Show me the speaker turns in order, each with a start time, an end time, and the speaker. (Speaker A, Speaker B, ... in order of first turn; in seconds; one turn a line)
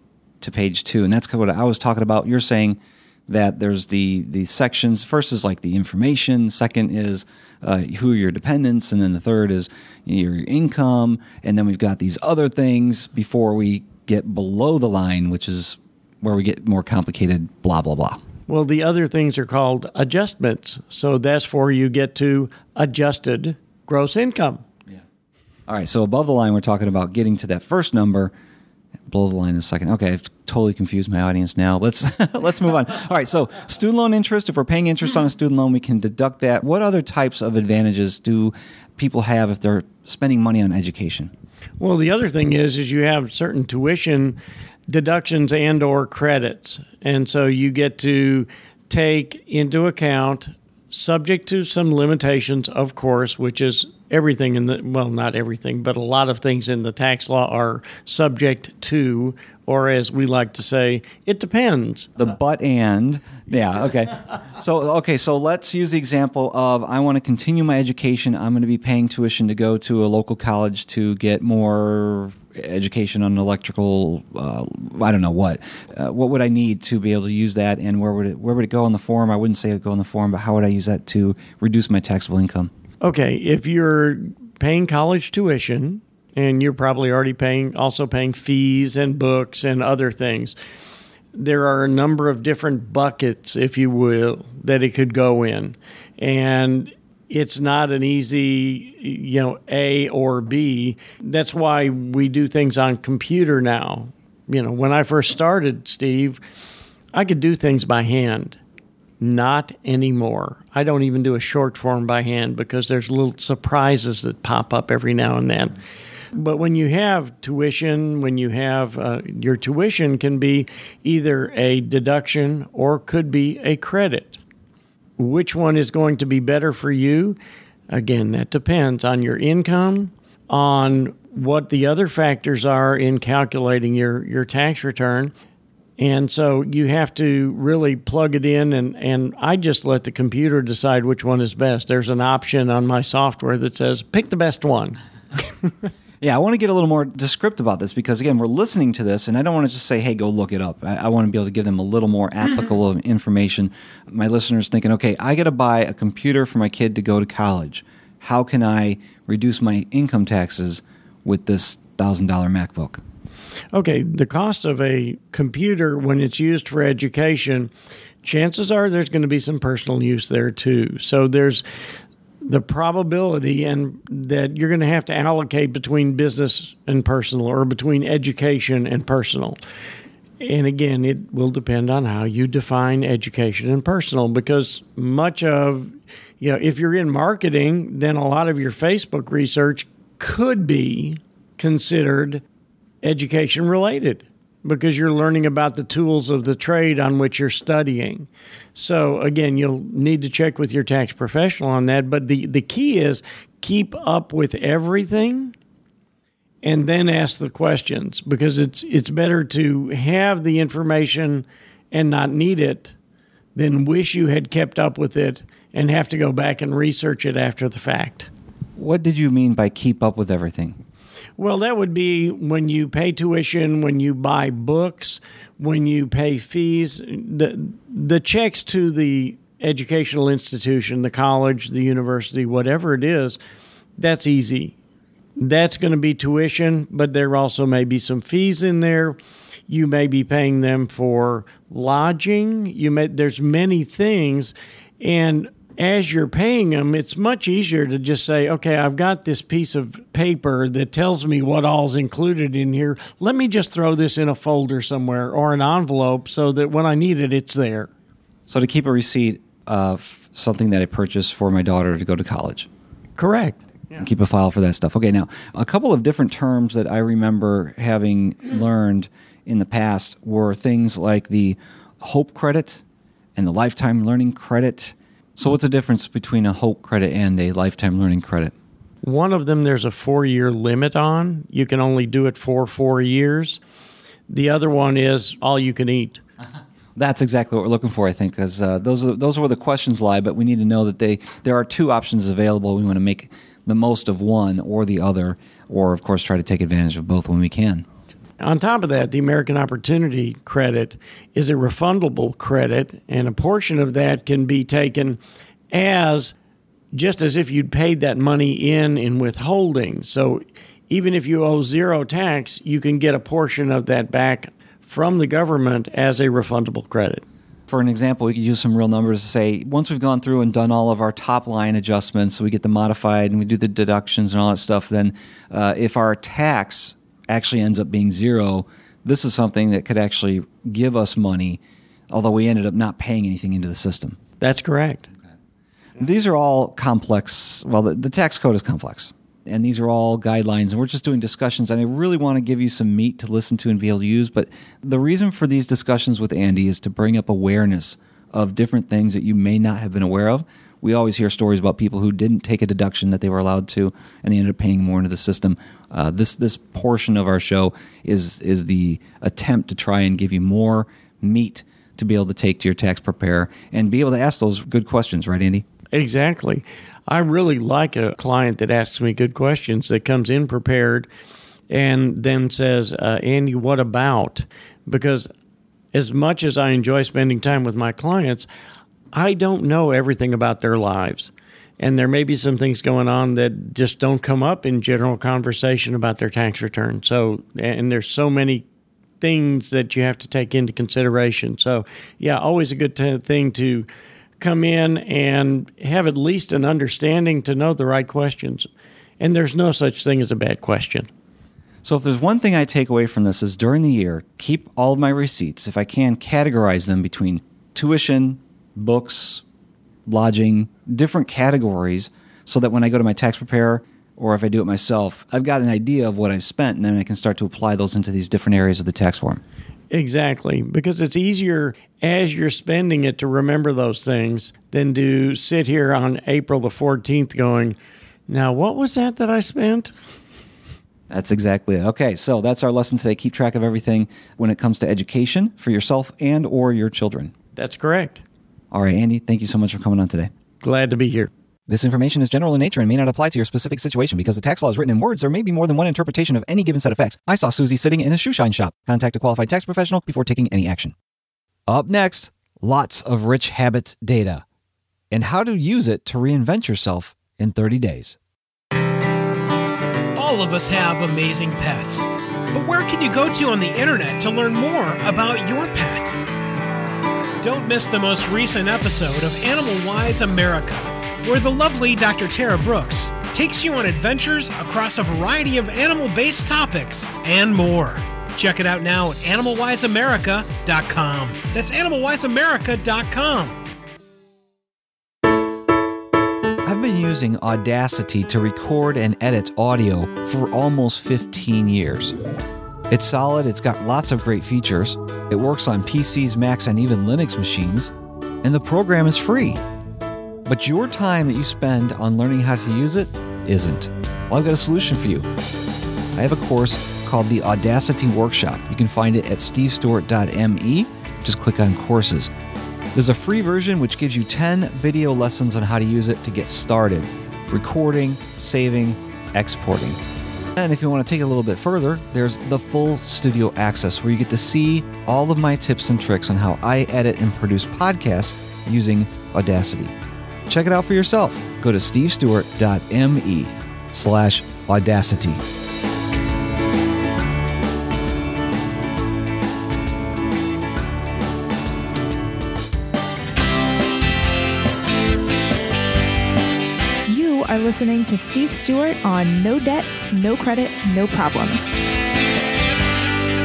Speaker A: 0.4-18.2
Speaker B: 18.5-24.6
Speaker A: 25.7-28.3
Speaker A: 29.1-41.3
Speaker B: 41.8-62.1
Speaker A: 62.2-82.7
Speaker B: 83.0-90.5
Speaker B: 91.3-106.4
Speaker B: 107.1-108.6
Speaker B: 109.2-115.7
Speaker B: 116.3-124.4
Speaker B: 125.2-127.4
Speaker B: 127.9-135.3
Speaker B: 136.0-145.0
Speaker A: 146.2-163.0
Speaker B: 163.7-167.7
Speaker B: 168.2-171.6
Speaker B: 172.4-179.6
Speaker B: 180.4-192.4
Speaker B: 193.0-205.5
Speaker B: 206.6-212.9
Speaker B: 213.5-218.3
Speaker A: 218.8-220.8
Speaker B: 221.4-233.4
Speaker B: 234.0-234.7
Speaker B: 235.4-239.2
Speaker B: 239.7-257.9
Speaker A: 258.5-262.7
Speaker B: 263.2-264.0
Speaker A: 263.9-272.8
Speaker A: 273.4-278.5
Speaker B: 279.0-283.6
Speaker B: 284.3-286.2
Speaker A: 286.9-297.9
Speaker B: 298.4-305.2
Speaker B: 305.7-306.3
Speaker B: 306.9-317.2
Speaker A: 317.7-334.2
Speaker B: 334.4-335.1
Speaker A: 336.0-365.6
Speaker B: 365.9-371.1
Speaker B: 371.7-375.3
Speaker B: 375.9-378.5
Speaker B: 379.1-388.6
Speaker B: 389.2-393.9
Speaker B: 394.4-398.7
Speaker B: 399.2-401.1
Speaker A: 401.8-409.4
Speaker A: 410.1-419.4
Speaker B: 419.9-427.8
Speaker B: 428.3-429.9
Speaker A: 431.1-437.3
Speaker B: 437.5-438.2
Speaker A: 438.7-440.3
Speaker B: 440.6-441.3
Speaker A: 441.7-450.9
Speaker A: 451.7-454.4
Speaker A: 455.1-458.2
Speaker C: 460.1-466.2
Speaker C: 467.4-483.6
Speaker A: 486.6-492.1
Speaker A: 492.9-499.6
Speaker A: 500.4-505.2
Speaker A: 506.1-512.3
Speaker A: 512.9-520.0
Speaker A: 520.5-529.9
Speaker A: 530.5-535.4
Speaker D: 547.1-551.7